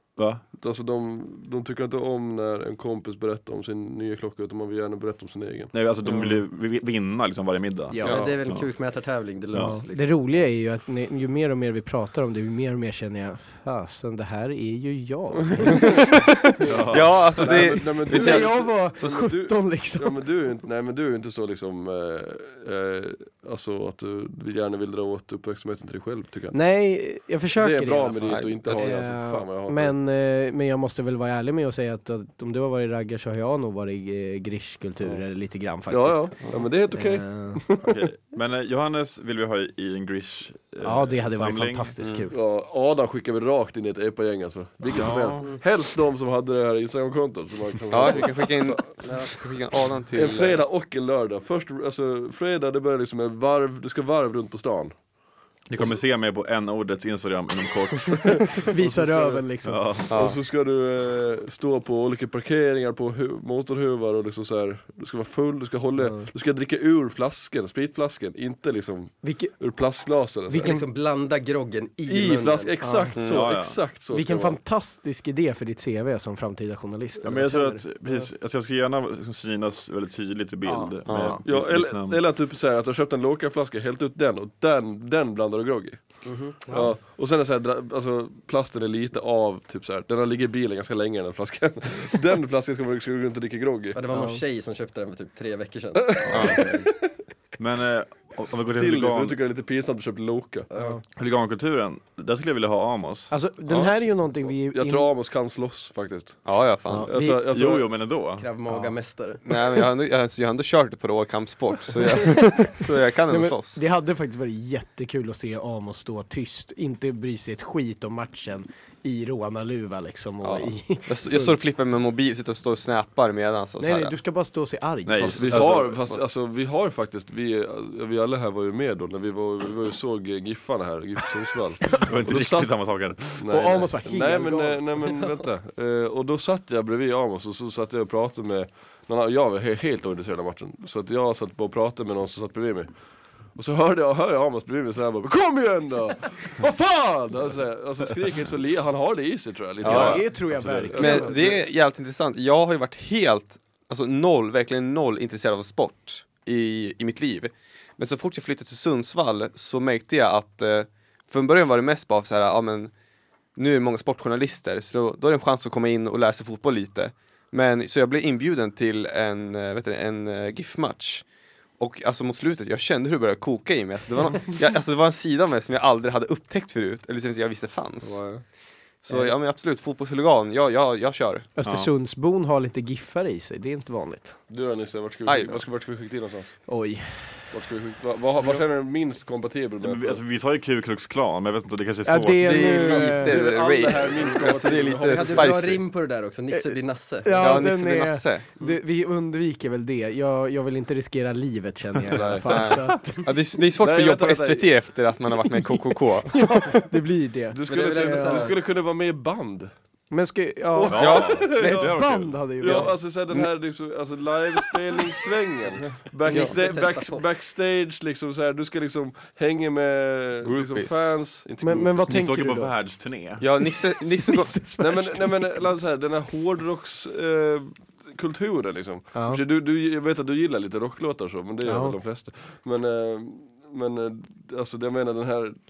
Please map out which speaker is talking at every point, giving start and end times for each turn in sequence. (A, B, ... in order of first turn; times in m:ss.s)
0:00.2-0:00.4 A
0:00.5-0:05.8 B
0:05.7-0:08.7 A
0:06.1-0:06.4 C
0:07.9-0:08.3 C
0:08.0-0:10.4 D
0:08.0-0:08.3 E
0:09.5-0:09.8 A
0:09.6-0:16.8 C
0:16.6-0:17.5 A
0:16.6-0:26.6 B
0:16.9-0:19.3 E
0:18.0-0:20.3 C
0:26.5-0:37.6 C
0:27.5-0:30.0 B
0:28.2-0:29.0 E
0:35.9-0:37.9 B
0:37.8-0:41.9 A
0:40.8-0:42.4 C
0:42.0-0:42.3 E
0:42.3-0:49.3 B
0:44.9-0:45.6 A
0:47.9-0:50.6 E
0:49.0-0:49.4 D
0:50.1-0:55.0 B
0:55.7-0:58.6 A
0:58.4-1:10.8 B
0:58.6-0:59.9 C
0:59.6-1:00.2 A
1:00.1-1:00.4 E
1:06.0-1:06.3 C
1:09.2-1:09.6 C
1:10.5-1:10.9 C
1:10.6-1:12.7 D
1:12.1-1:14.6 B
1:12.8-1:13.2 C
1:13.2-1:13.5 E
1:13.3-1:13.8 A
1:14.1-1:18.3 C
1:17.2-1:22.2 A
1:20.6-1:21.4 C
1:21.1-1:21.4 E
1:21.4-1:34.0 B
1:26.2-1:26.9 D
1:26.7-1:27.0 C
1:33.9-1:36.9 D
1:34.1-1:34.4 C
1:36.0-1:37.1 B
1:36.3-1:36.6 E
1:37.6-1:39.4 A
1:38.7-1:40.7 B
1:41.2-1:43.3 A
1:43.3-1:45.1 C
1:43.7-1:46.4 B
1:46.4-1:47.1 E
1:46.9-1:47.5 C
1:47.1-1:47.9 B
1:47.5-1:48.5 A
1:48.4-1:49.4 D
1:48.7-1:48.9 C
1:49.4-1:53.8 E
1:53.3-2:01.6 C
2:00.4-2:04.2 E
2:03.8-2:05.6 C
2:05.1-2:06.0 A
2:05.3-2:12.7 B
2:05.5-2:06.2 E
2:12.0-2:13.7 A
2:13.4-2:23.0 B
2:13.5-2:14.9 C
2:23.5-2:31.6 B
2:29.8-2:30.2 E
2:29.8-2:31.2 A
2:29.8-2:31.5 C
2:31.0-2:42.9 E
2:43.6-2:51.3 E
2:51.8-2:58.3 E
2:58.0-2:58.4 B
2:59.0-3:01.5 E
3:01.6-3:04.4 C
3:01.6-3:01.9 A
3:04.5-3:06.7 B
3:05.2-3:05.7 E
3:06.7-3:07.6 C
3:07.5-3:10.2 B
3:09.8-3:12.8 A
3:12.0-3:13.4 C
3:12.4-3:15.8 E
3:12.8-3:15.6 B
3:15.1-3:17.7 D
3:16.5-3:23.3 C
3:17.3-3:18.5 E
3:22.1-3:23.1 B
3:22.4-3:26.5 E
3:23.8-3:24.9 B
3:26.3-3:28.5 C
3:27.5-3:29.7 B
3:27.6-3:28.6 D
3:30.1-3:33.4 C
3:30.7-3:42.1 B
3:30.9-3:32.7 A
3:31.0-3:31.5 E
3:36.3-3:37.3 D
3:36.3-3:36.6 E
3:40.4-3:41.2 E
3:41.6-3:42.8 C
3:42.1-3:43.5 A
3:43.4-3:44.8 E
3:44.2-3:45.4 C
3:44.8-3:55.6 B
3:49.1-3:49.4 C
3:51.6-3:52.0 C